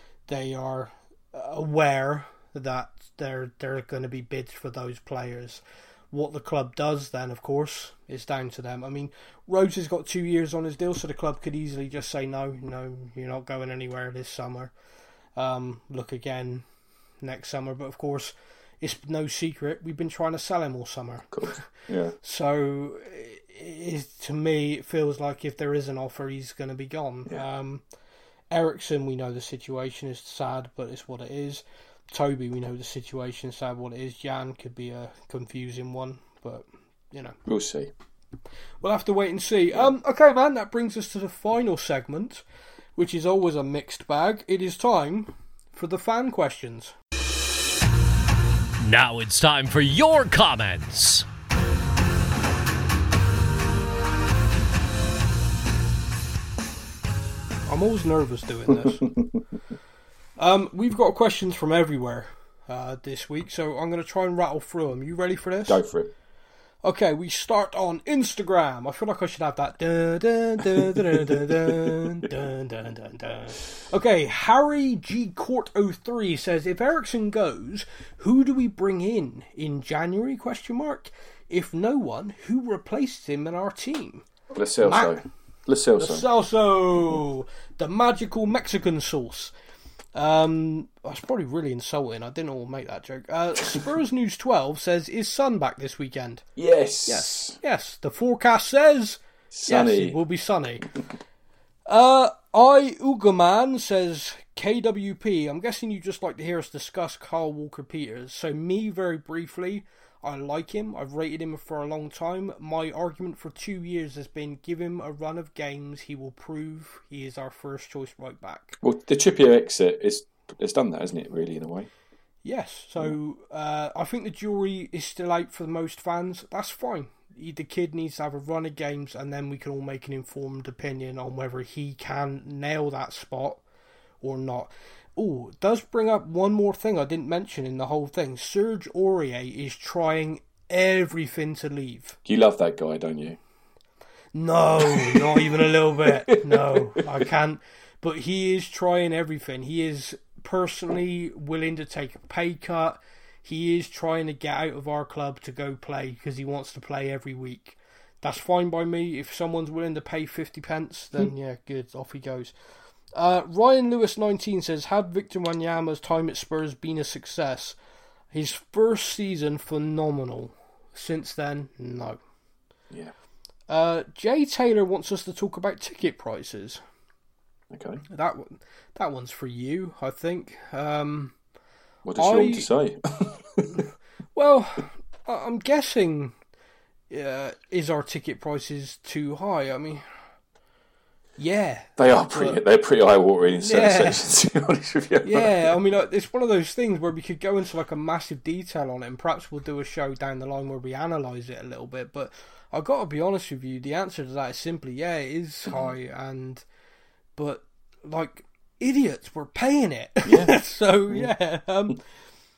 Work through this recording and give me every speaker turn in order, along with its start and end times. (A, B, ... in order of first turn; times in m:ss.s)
0:00.3-0:14.7 A
0:15.4-0:16.6 A
0:17.2-0:21.7 A
0:21.3-0:22.2 B
0:22.2-0:27.8 A
0:28.5-0:37.4 A
0:37.5-0:37.9 B
0:38.8-0:42.4 A
0:43.0-0:47.0 A
0:48.8-0:51.3 C
0:57.7-0:59.0 A
0:58.7-0:59.4 B
1:00.4-1:05.8 A
1:05.7-1:06.1 B
1:06.8-1:24.3 A
1:10.6-1:12.2 B
1:24.5-1:26.3 B
1:24.8-1:25.2 A
1:26.0-1:29.5 A
1:30.2-1:36.4 A
1:36.6-1:37.6 B
1:37.1-1:40.9 A
1:39.5-1:40.2 B
1:41.9-1:58.8 A
1:58.8-2:01.9 B
2:02.4-2:13.6 A
2:14.2-2:22.2 A
2:22.3-2:23.4 B
2:24.3-2:42.5 A
2:24.8-2:27.2 B
2:43.2-2:47.8 A
2:48.3-2:52.2 A
2:53.7-2:56.8 A
2:57.7-2:58.0 B
2:58.1-3:01.4 A
3:02.0-3:03.8 B
3:02.2-3:02.7 A
3:04.4-3:06.4 A
3:07.1-3:10.0 A
3:11.4-3:12.6 A
3:12.0-3:15.7 B
3:13.6-3:14.2 A
3:15.2-3:26.6 A
3:25.7-3:26.0 B
3:27.4-3:32.0 A
3:30.2-3:30.6 B